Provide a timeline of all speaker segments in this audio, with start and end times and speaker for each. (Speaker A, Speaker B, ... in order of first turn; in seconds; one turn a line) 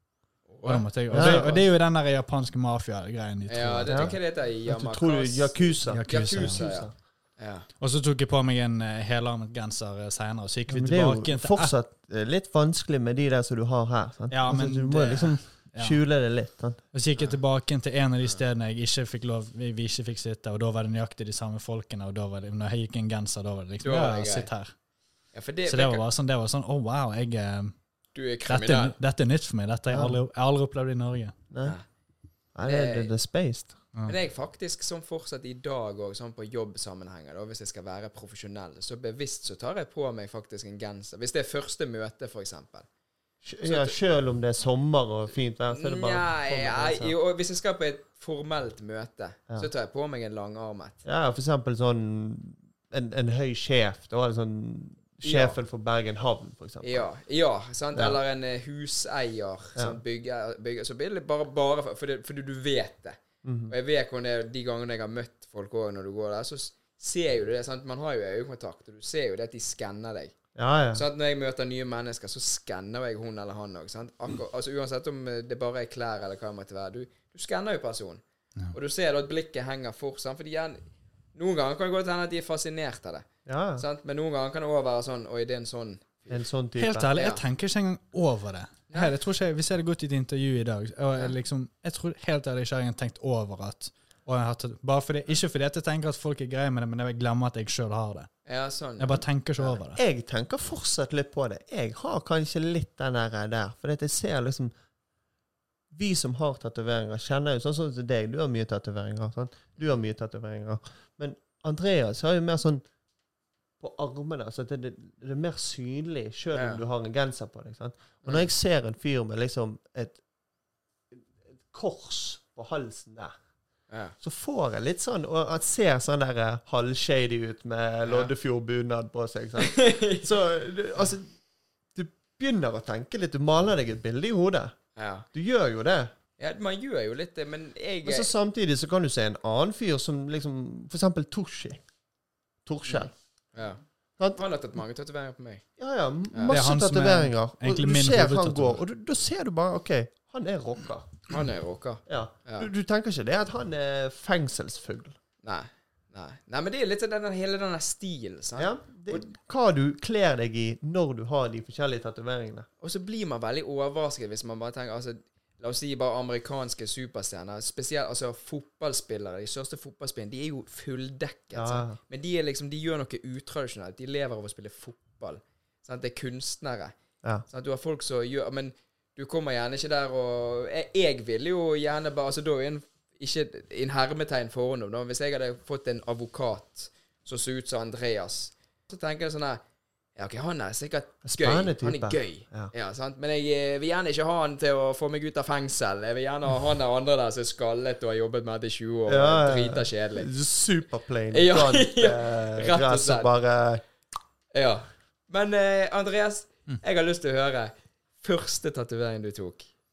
Speaker A: 0.5-1.6
Speaker B: 0.6-4.2
Speaker C: 1.1-1.6
Speaker A: 3.5-7.7
Speaker C: 3.9-6.9
Speaker B: 5.9-6.7
Speaker B: 7.8-11.7
Speaker C: 10.7-16.8
Speaker B: 14.3-16.0
Speaker B: 16.9-24.7
Speaker A: 23.8-24.5
Speaker A: 25.3-26.0
Speaker B: 25.7-27.8
Speaker A: 28.1-28.9
Speaker B: 28.5-31.4
Speaker C: 29.9-30.2
Speaker C: 31.5-31.8
Speaker C: 32.5-33.8
Speaker A: 32.6-33.1
Speaker A: 34.1-42.9
Speaker C: 43.4-47.1
Speaker A: 43.6-44.0
Speaker A: 45.7-51.0
Speaker C: 51.0-57.1
Speaker A: 55.2-55.6
Speaker A: 56.8-70.3
Speaker C: 57.9-58.2
Speaker C: 59.8-60.0
Speaker C: 63.4-63.7
Speaker C: 70.6-71.0
Speaker A: 70.9-78.2
Speaker A: 78.7-80.8
Speaker A: 81.3-83.3
Speaker C: 83.5-83.8
Speaker A: 83.8-86.4
Speaker C: 86.3-87.1
Speaker B: 86.8-98.3
Speaker A: 87.2-87.4
Speaker A: 98.5-99.8
Speaker B: 99.0-100.0
Speaker C: 100.0-104.7
Speaker C: 105.9-112.8
Speaker C: 113.8-120.2
Speaker A: 116.5-116.8
Speaker C: 121.1-123.3
Speaker A: 123.9-124.2
Speaker C: 124.2-131.3
Speaker A: 128.1-128.3
Speaker A: 129.6-130.3
Speaker C: 131.9-134.8
Speaker A: 135.0-135.3
Speaker C: 135.3-136.1
Speaker A: 136.4-138.3
Speaker C: 138.1-141.8
Speaker C: 142.7-143.1
Speaker A: 142.9-143.8
Speaker A: 144.4-145.6
Speaker C: 145.8-151.1
Speaker A: 146.3-146.6
Speaker B: 146.5-148.8
Speaker A: 151.3-152.7
Speaker C: 152.1-155.2
Speaker A: 155.4-159.2
Speaker C: 158.6-162.7
Speaker A: 162.8-176.9
Speaker C: 171.5-172.0
Speaker A: 177.5-189.6
Speaker A: 190.2-200.3
Speaker C: 191.2-192.7
Speaker C: 199.1-203.8
Speaker A: 201.3-203.3
Speaker A: 204.5-209.7